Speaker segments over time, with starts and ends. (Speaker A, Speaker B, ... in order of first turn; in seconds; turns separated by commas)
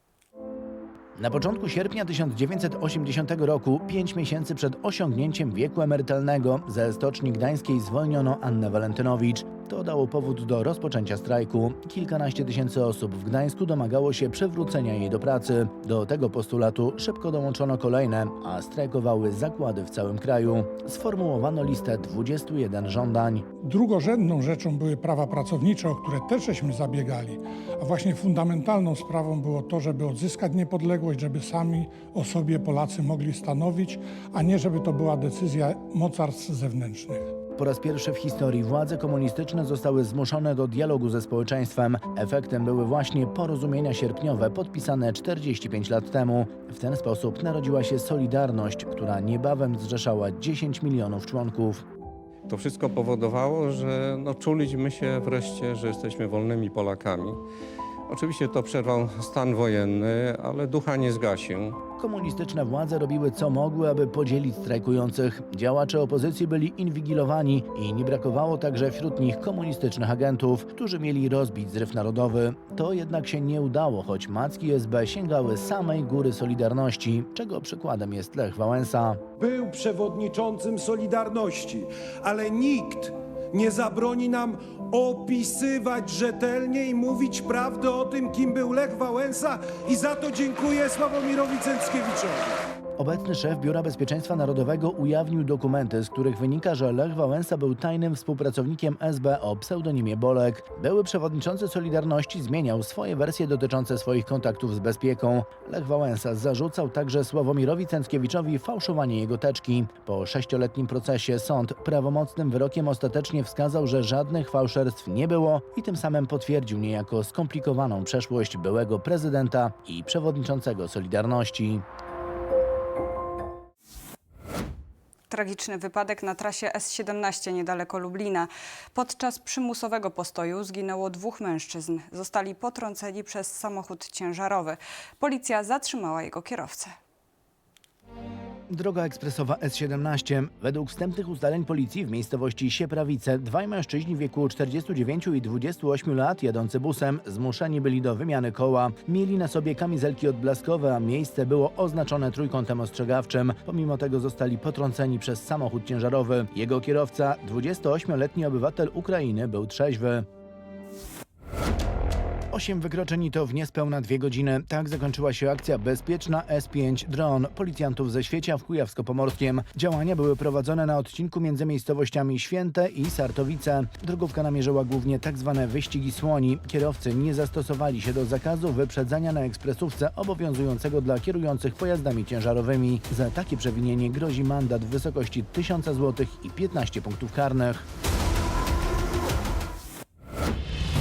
Speaker A: 1.1-23.4, Speaker B: 23.6-37.3, Speaker A: 37.6-51.8, Speaker C: 52.5-57.4, Speaker C: 58.1-61.8, Speaker A: 62.0-79.2, Speaker D: 79.4-92.6, Speaker A: 93.0-121.8, Speaker E: 125.3-136.9, Speaker A: 138.7-160.2, Speaker A: 162.5-187.8